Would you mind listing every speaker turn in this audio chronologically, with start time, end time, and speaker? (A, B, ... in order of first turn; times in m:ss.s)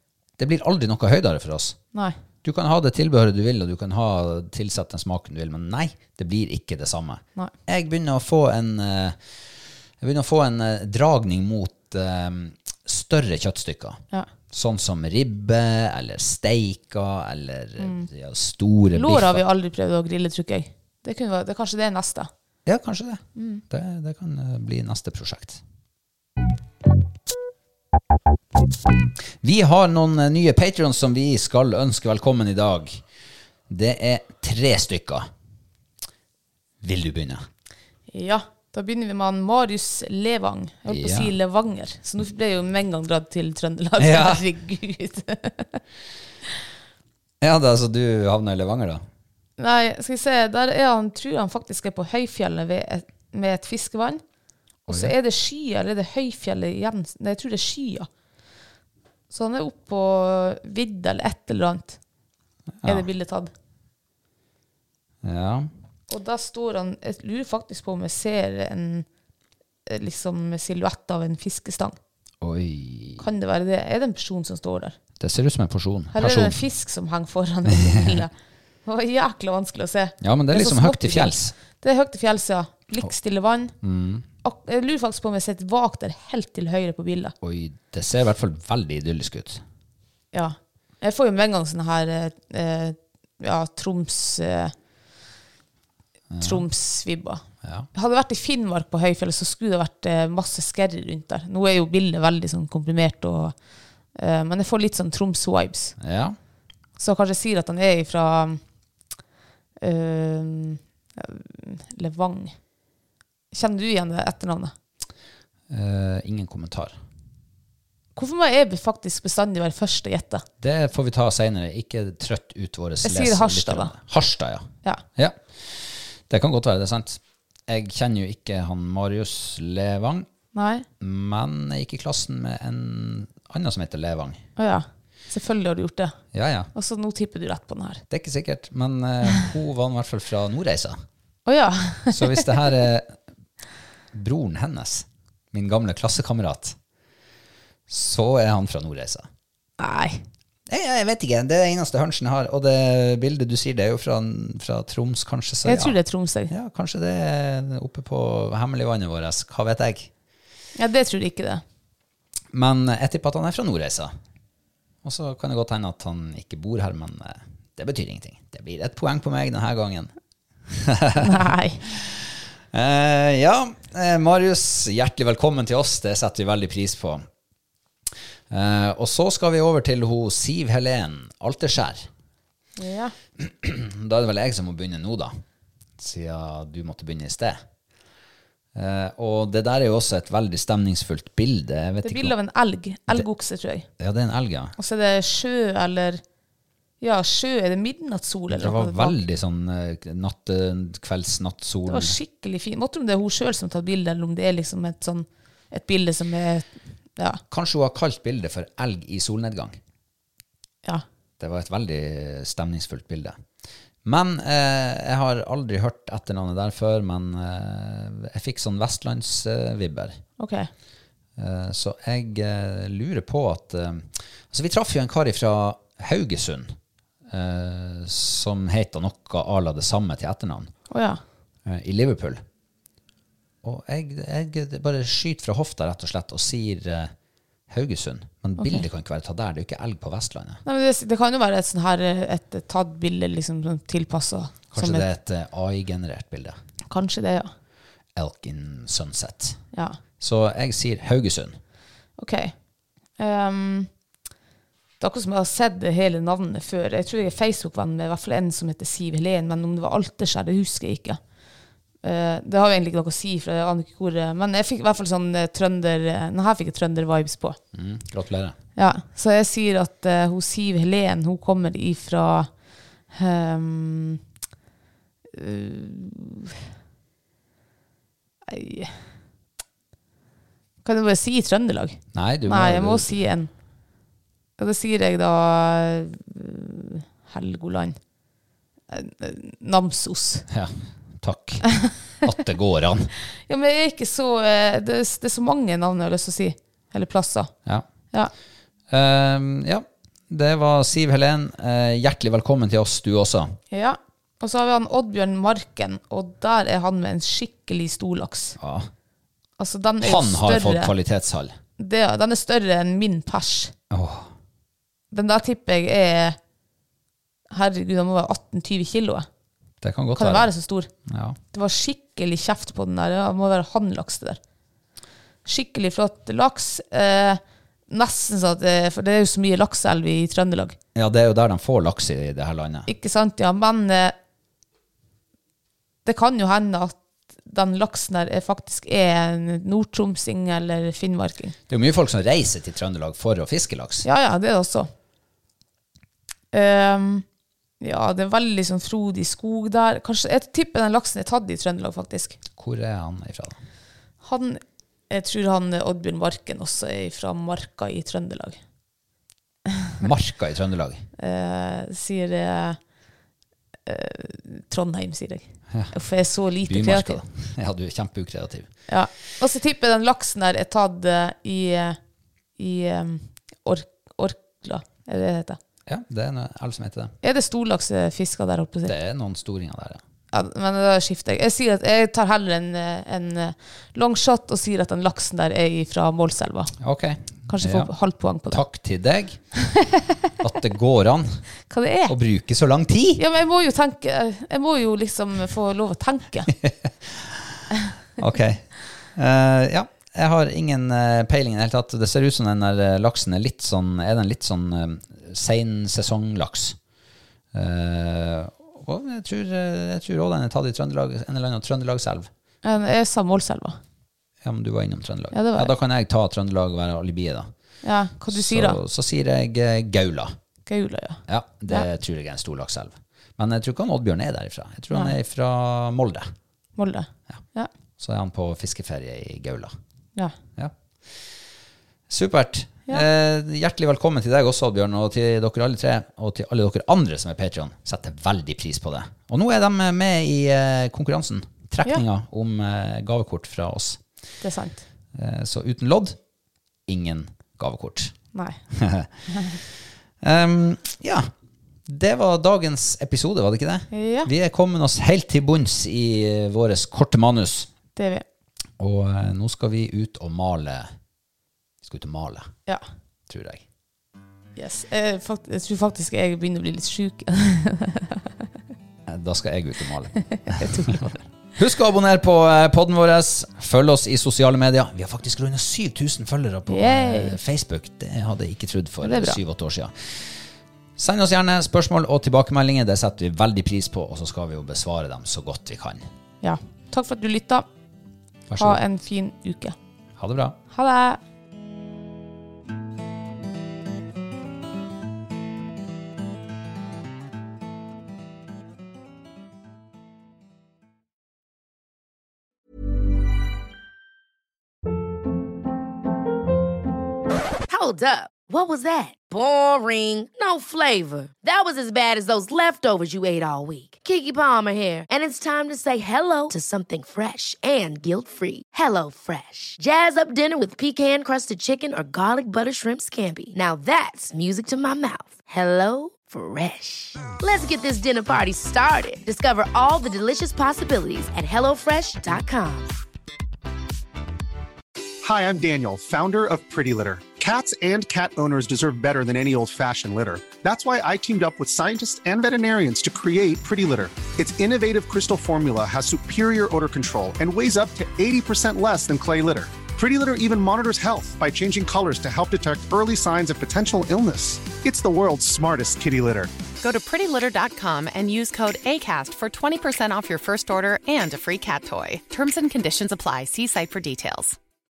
0:00.4-0:01.8 A
0:02.4-0:09.2 A
0:10.0-0:19.4 A
0:17.8-0:18.1 B
0:18.9-0:22.3 B
0:22.7-0:25.6 A
0:23.4-0:23.6 B
0:29.4-0:33.0 A
0:33.7-0:35.3 A
0:36.8-0:37.4 A
0:38.1-0:45.8 B
0:40.9-0:41.3 A
0:44.0-0:44.4 A
0:47.4-0:49.0 A
0:49.6-0:54.2 B
0:54.9-0:58.1 B
0:54.9-0:55.1 A
0:59.3-1:02.0 B
1:02.8-1:03.1 A
1:02.8-1:03.5 B
1:05.2-1:05.7 A
1:06.1-1:09.0 B
1:09.9-1:12.0 B
1:12.4-1:13.3 A
1:13.2-1:15.0 B
1:15.2-1:16.6 A
1:16.1-1:18.3 B
1:17.7-1:18.2 A
1:18.8-1:23.8 B
1:20.2-1:21.5 A
1:23.8-1:24.3 A
1:24.4-1:27.4 B
1:27.4-1:29.6 A
1:30.3-1:34.7 B
1:36.3-1:36.6 A
1:36.4-1:37.4 B
1:37.6-1:37.9 A
1:37.9-1:43.6 B
1:44.2-1:46.0 B
1:46.0-1:46.4 A
1:47.0-1:48.6 B
1:49.8-1:52.6 B
1:53.5-1:54.7 B
1:55.7-1:57.0 A
1:58.2-2:00.4 B
2:00.6-2:10.3 A
2:03.0-2:04.0 B
2:10.5-2:10.9 B
2:11.0-2:14.4 A
2:14.6-2:16.2 B
2:16.3-2:16.7 A
2:16.7-2:18.0 B
2:18.1-2:21.0 A
2:21.5-2:22.7 B
2:22.1-2:23.2 A
2:24.1-2:26.8 A
2:27.9-2:29.3 A
2:29.8-2:30.2 B
2:30.7-2:36.0 A
2:35.6-2:36.5 B
2:36.5-2:40.1 A
2:40.8-2:41.6 B
2:42.5-2:44.1 A
2:45.0-2:50.1 A
2:50.7-2:57.2 A
2:51.2-2:51.9 B
2:58.5-3:02.1 A
3:02.8-3:03.2 B
3:03.4-3:05.4 A
3:06.0-3:07.6 A
3:08.8-3:12.3 A
3:12.0-3:13.9 B
3:14.0-3:14.8 A
3:14.8-3:16.2 B
3:17.0-3:19.2 B
3:18.6-3:22.2 A
3:21.9-3:27.4 B
3:27.5-3:29.8 A
3:31.4-3:33.4 A
3:34.0-3:40.2 A
3:40.4-3:40.7 B
3:41.4-3:46.8 A
3:47.3-3:50.7 A
3:50.9-3:51.2 B
3:51.6-3:52.4 A
3:53.6-3:57.1 A
3:57.7-4:00.6 A
3:58.6-3:58.8 B
4:00.6-4:05.1 B
4:04.7-4:06.6 A
4:06.9-4:07.5 B
4:08.2-4:09.6 A
4:09.7-4:10.0 B
4:10.2-4:11.6 A
4:12.2-4:12.6 B
4:13.2-4:13.9 B
4:15.0-4:21.2 B
4:22.0-4:27.6 B
4:27.7-4:28.6 A
4:28.8-4:32.5 B
4:33.1-4:34.2 B
4:35.3-4:36.6 B
4:38.5-4:39.0 B
4:40.8-4:43.5 B
4:42.1-4:43.2 A
4:44.6-4:48.0 B
4:48.9-4:50.5 B
4:50.5-4:51.7 A
4:52.2-4:53.1 A
4:53.5-4:57.5 B
4:58.9-5:03.6 A
5:03.7-5:08.6 B
5:08.6-5:08.9 A
5:09.6-5:10.9 B
5:10.0-5:11.6 A
5:11.8-5:13.7 B
5:13.9-5:14.3 A
5:15.1-5:16.4 B
5:17.5-5:19.3 B
5:19.8-5:20.5 A
5:20.2-5:20.9 B
5:21.1-5:21.4 A
5:21.5-5:24.4 B
5:25.5-5:30.8 B
5:31.0-5:32.9 A
5:32.9-5:34.2 B
5:36.0-5:41.6 B
5:41.7-5:44.1 A
5:44.0-5:44.9 B
5:46.5-5:47.2 B
5:47.8-5:52.4 B
5:52.6-5:53.6 A
5:54.2-5:58.6 B
6:00.0-6:01.1 A
6:01.2-6:02.8 B
6:03.9-6:07.2 B
6:06.6-6:08.7 A
6:08.9-6:12.0 B
6:12.6-6:15.6 B
6:15.9-6:17.1 A
6:17.2-6:18.9 B
6:18.8-6:20.0 A
6:20.3-6:26.7 B
6:26.8-6:27.9 A
6:27.5-6:28.6 B
6:28.5-6:29.4 A
6:29.7-6:30.2 B
6:30.4-6:31.5 A
6:31.7-6:32.2 B
6:32.1-6:33.2 A
6:33.2-6:36.5 B
6:36.5-6:37.6 A
6:38.2-6:46.8 A
6:47.5-6:52.3 A
6:52.6-6:53.8 B
6:54.4-6:57.5 A
6:55.3-6:55.7 B
6:57.8-6:58.8 B
6:58.3-7:00.4 A
7:00.7-7:01.9 B
7:01.3-7:06.3 A
7:04.9-7:05.2 B
7:06.8-7:07.7 B
7:08.0-7:09.7 A
7:12.1-7:24.0 A
7:24.4-7:24.8 B
7:25.1-7:26.2 A
7:26.9-7:28.1 A
7:28.3-7:28.6 B
7:28.7-7:29.1 A
7:29.3-7:29.6 B
7:30.2-7:31.3 A
7:31.9-7:37.7 A
7:33.9-7:34.3 B
7:38.0-7:38.2 B
7:38.8-7:40.9 A
7:41.8-7:42.5 A
7:43.3-7:43.6 A
7:44.6-7:48.3 B
7:49.1-8:00.3 A
7:50.3-7:51.2 B
7:56.7-7:57.4 B
7:59.0-7:59.4 B
8:01.0-8:06.0 A
8:06.4-8:07.7 B
8:08.5-8:08.8 A
8:08.6-8:09.8 B
8:10.2-8:10.6 A
8:10.7-8:11.2 B
8:27.7-8:52.9 C
8:55.2-9:16.6 D
9:16.8-9:24.6 E